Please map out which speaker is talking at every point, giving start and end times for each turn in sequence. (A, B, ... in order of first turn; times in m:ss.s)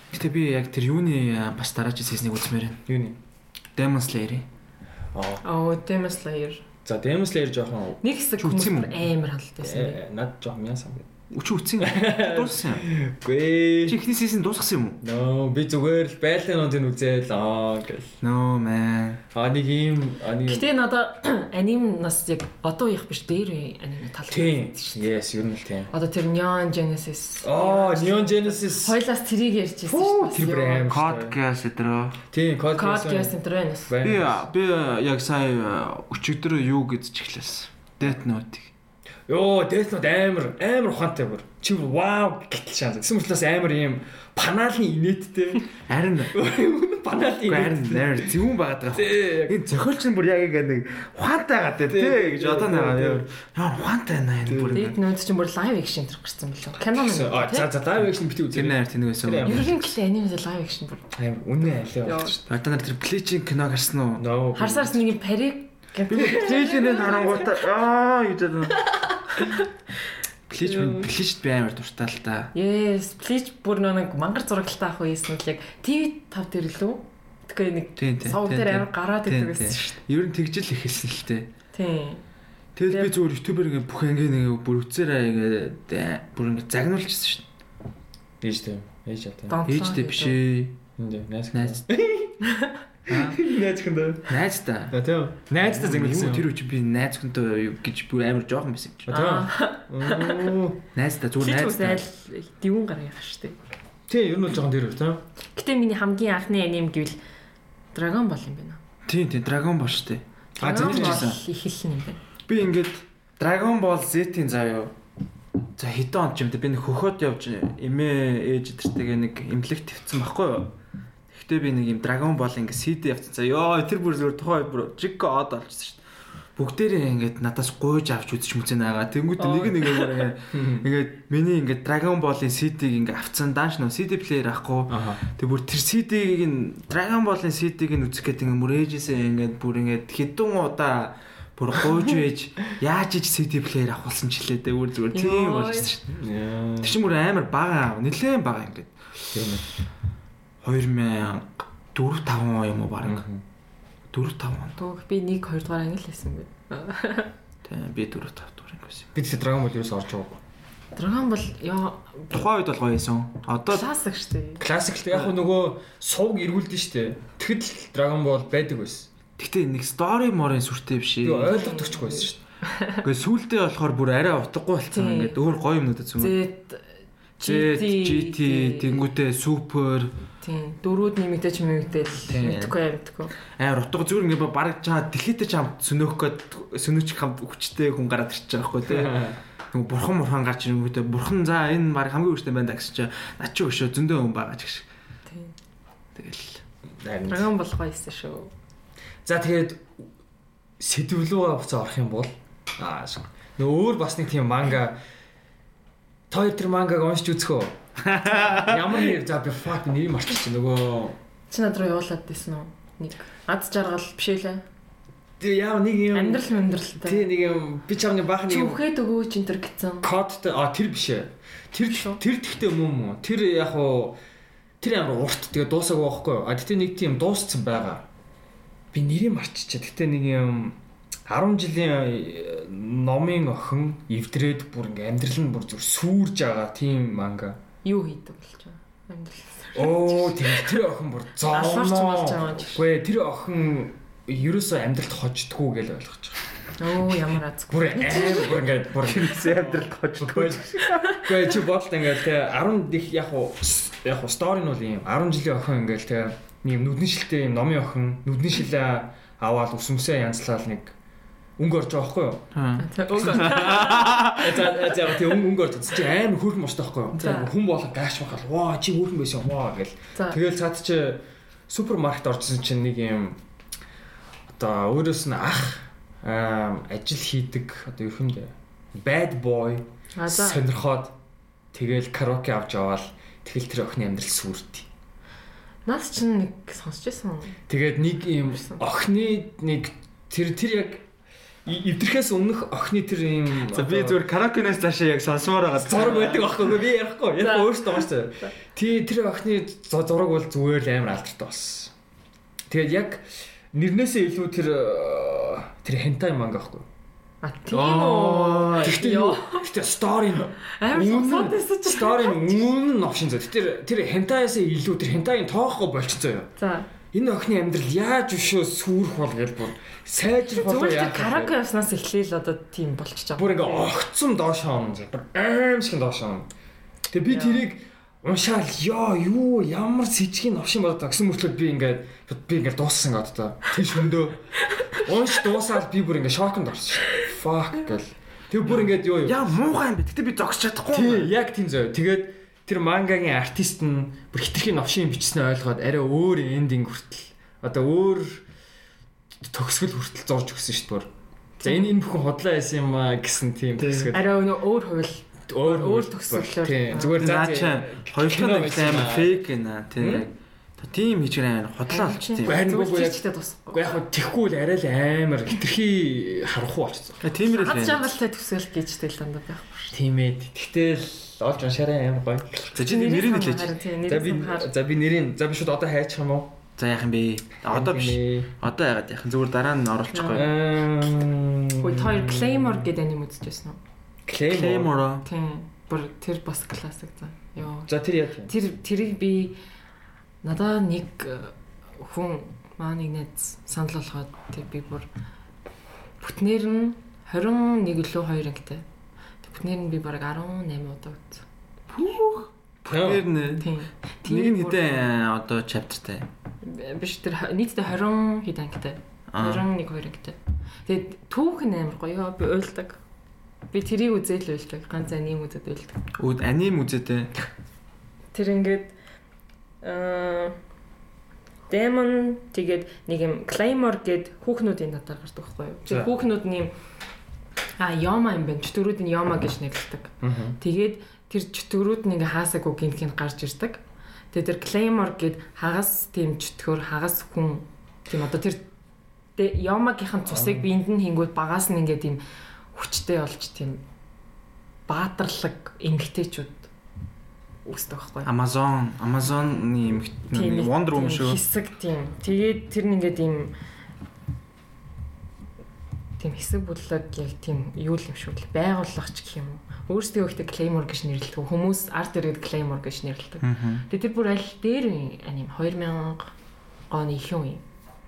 0:00.1-0:02.8 A
0:02.9-0:03.2 B
0:03.8-0:04.4 A
0:05.1-0:05.4 B
0:05.4-0:06.6 C
0:06.8-0:08.0 B
0:08.0-0:10.0 C
0:08.4-0:09.1 A
0:09.6-0:11.1 B
0:11.3-0:12.9 A
0:11.8-0:14.0 B
0:13.8-0:15.0 A
0:15.0-0:18.1 B
0:18.2-0:19.2 A
0:19.3-0:20.7 B
0:20.4-0:25.0 C
0:24.3-0:25.9 B
0:25.9-0:30.9 C
0:27.4-0:29.0 B
0:29.8-0:31.4 B
0:30.9-0:32.2 A
0:32.3-0:33.3 B
0:32.7-0:34.0 C
0:33.9-0:34.4 B
0:34.0-0:38.7 A
0:39.3-0:45.7 B
0:45.9-0:46.4 A
0:46.3-0:48.3 B
0:47.4-0:55.0 A
0:48.9-0:49.6 B
0:51.8-0:53.2 B
0:54.4-0:54.8 B
0:54.7-0:57.7 C
0:56.8-0:59.8 B
0:58.5-0:59.6 A
0:59.4-1:01.1 C
1:01.1-1:02.5 B
1:02.0-1:02.4 C
1:02.5-1:04.3 A
1:04.2-1:05.0 B
1:04.5-1:07.4 C
1:06.1-1:08.9 A
1:09.3-1:09.6 C
1:10.5-1:12.5 A
1:10.6-1:11.1 C
1:12.5-1:20.0 C
1:18.0-1:21.5 A
1:21.7-1:22.2 C
1:22.8-1:27.4 A
1:22.9-1:23.1 C
1:28.4-1:29.6 B
1:29.5-1:30.4 C
1:29.6-1:30.8 A
1:31.0-1:32.4 B
1:31.5-1:31.8 A
1:32.4-1:32.7 C
1:33.1-1:33.4 A
1:33.1-1:34.3 B
1:34.3-1:35.0 A
1:34.9-1:36.5 B
1:35.5-1:39.1 A
1:39.1-1:40.8 B
1:39.1-1:40.5 C
1:40.9-1:42.0 A
1:41.4-1:43.6 C
1:44.1-1:45.2 B
1:45.5-1:47.2 C
1:47.9-1:48.8 C
1:49.0-1:51.4 A
1:50.6-1:51.3 B
1:50.6-1:52.2 C
1:52.5-1:54.9 A
1:55.8-2:00.7 A
2:01.3-2:06.0 A
2:06.6-2:26.1 A
2:09.4-2:10.3 C
2:10.5-2:10.9 B
2:14.9-2:15.2 B
2:25.1-2:25.9 C
2:26.1-2:27.0 B
2:26.8-2:28.9 A
2:29.3-2:29.7 B
2:30.6-2:33.2 A
2:33.0-2:33.4 B
2:34.1-2:34.8 A
2:34.8-2:37.3 C
2:37.6-2:39.1 A
2:39.1-2:40.4 B
2:40.9-2:42.3 C
2:42.3-2:43.8 A
2:43.7-2:44.6 C
2:44.6-2:49.1 B
2:49.4-2:51.6 A
2:51.2-2:52.4 B
2:51.5-2:53.0 C
2:53.0-2:56.4 A
2:54.9-2:55.4 C
2:56.2-2:56.8 C
2:57.4-2:59.0 C
2:57.4-3:00.1 A
3:00.4-3:03.3 C
3:02.2-3:02.8 A
3:03.6-3:14.8 A
3:08.8-3:09.4 B
3:15.3-3:15.5 C
3:16.1-3:16.6 A
3:17.0-3:17.5 B
3:17.3-3:18.5 C
3:19.2-3:19.9 B
3:20.8-3:25.0 B
3:26.3-3:31.2 B
3:28.0-3:28.8 A
3:31.5-3:34.6 C
3:35.4-3:38.8 B
3:36.1-3:37.3 C
3:38.5-3:40.1 C
3:40.0-3:44.2 B
3:44.8-3:48.0 B
3:48.9-3:57.6 B
3:57.8-4:00.8 C
3:59.7-4:06.4 B
4:01.4-4:02.8 C
4:06.8-4:08.6 C
4:07.7-4:20.9 B
4:08.9-4:11.2 A
4:10.9-4:11.2 C
4:21.6-4:22.5 B
4:22.5-4:24.8 A
4:22.8-4:24.2 C
4:23.1-4:33.4 B
4:27.1-4:27.5 C
4:34.5-4:41.1 B
4:40.1-4:40.6 C
4:41.7-4:44.9 B
4:45.8-4:47.6 C
4:47.7-4:51.0 B
4:51.6-4:54.2 B
4:53.6-4:56.6 A
4:55.7-5:01.9 B
4:57.4-4:58.5 C
5:02.7-5:06.8 B
5:07.4-5:09.6 C
5:07.7-5:09.0 A
5:08.8-5:16.5 B
5:10.7-5:12.7 C
5:16.6-5:16.9 C
5:17.1-5:21.5 B
5:20.5-5:23.9 C
5:23.4-5:26.5 B
5:27.1-5:39.4 B
5:27.3-5:27.6 C
5:38.7-5:41.3 A
5:40.9-5:48.4 B
5:49.4-5:51.1 B
5:51.6-5:51.9 C
5:51.6-5:54.3 B
5:53.8-5:54.1 A
5:54.1-5:57.2 C
5:55.5-5:59.4 B
5:57.1-6:02.6 A
6:00.0-6:00.2 B
6:01.9-6:03.9 C
6:02.4-6:07.2 B
6:07.2-6:08.1 A
6:07.4-6:09.9 C
6:09.9-6:12.7 B
6:12.7-6:13.8 A
6:12.8-6:14.7 C
6:14.0-6:16.6 B
6:16.8-6:20.5 A
6:17.6-6:18.5 B
6:20.1-6:20.5 C
6:20.3-6:22.9 B
6:21.8-6:23.8 C
6:24.2-6:25.0 B
6:24.5-6:25.2 A
6:25.2-6:27.9 C
6:27.9-6:28.5 B
6:28.4-6:29.6 C
6:30.4-6:35.1 C
6:36.2-6:38.8 C
6:39.4-6:41.4 C
6:41.9-6:46.3 A
6:42.9-6:43.3 B
6:43.6-6:45.1 C
6:46.6-6:53.0 C
6:49.3-6:49.6 A
6:53.7-6:56.0 C
6:56.2-6:57.3 A
6:58.3-6:58.9 C
6:59.8-7:00.6 C
7:01.7-7:06.7 C
7:05.8-7:06.1 B
7:07.8-7:13.8 C
7:10.2-7:10.6 B
7:14.3-7:18.6 C
7:19.4-7:22.2 C
7:20.3-7:20.7 B
7:22.7-7:23.8 C
7:24.9-7:26.7 C
7:27.6-7:28.3 C
7:28.2-7:31.4 A
7:30.3-7:33.5 C
7:36.2-7:46.3 C
7:43.4-7:43.8 A
7:46.9-7:47.6 C